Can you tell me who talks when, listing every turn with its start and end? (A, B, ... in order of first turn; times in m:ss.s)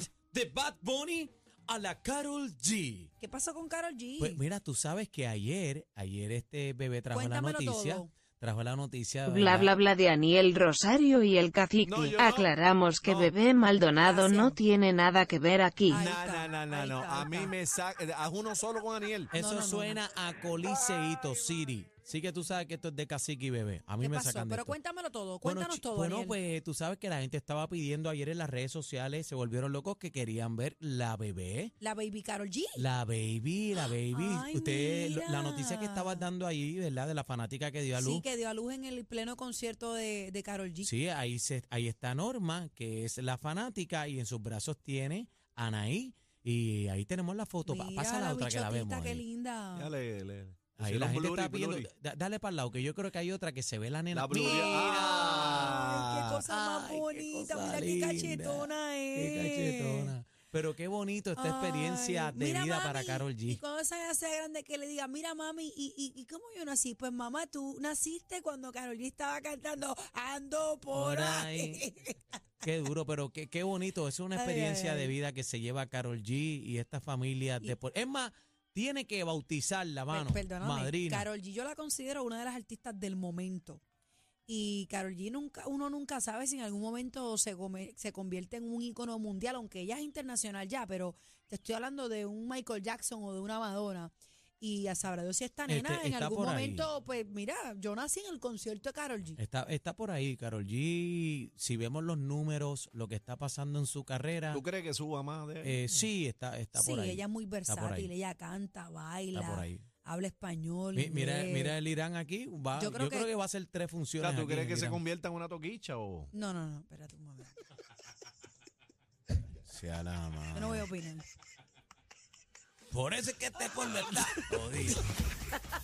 0:00.3-0:03.1 A
0:03.2-0:04.4 B
0:04.2-0:09.7 A
0:07.1-0:08.1 B
0:09.3-0:15.9 C
0:11.8-0:12.5 D
0:13.0-0:13.3 D
0:14.0-0:14.6 B
0:15.9-0:17.5 B
0:15.9-0:19.3 D
0:19.3-0:24.8 A
0:19.3-0:20.0 B
0:24.0-0:26.4 B
0:25.4-0:31.7 A
0:31.8-0:32.9 B
0:32.8-0:38.2 A
0:34.1-0:36.2 B
0:38.0-0:40.9 B
0:40.8-0:49.2 A
0:47.6-0:49.9 B
0:49.7-0:51.9 D
0:50.8-0:55.6 A
0:54.1-0:56.0 D
0:54.3-1:00.1 B
0:56.5-1:03.6 A
1:01.4-1:12.2 B
1:10.9-1:11.8 A
1:12.6-1:21.2 A
1:14.3-1:15.2 B
1:20.1-1:23.8 B
1:24.5-1:39.4 B
1:35.7-1:36.9 A
1:39.4-1:44.6 A
1:44.5-1:45.9 D
1:45.6-1:48.1 A
1:46.7-1:51.8 B
1:49.3-1:49.8 A
1:50.9-1:55.0 A
1:52.8-1:53.3 B
1:54.2-1:56.3 D
1:56.3-1:57.6 B
1:59.6-2:00.9 A
2:00.5-2:01.2 B
2:02.9-2:05.0 A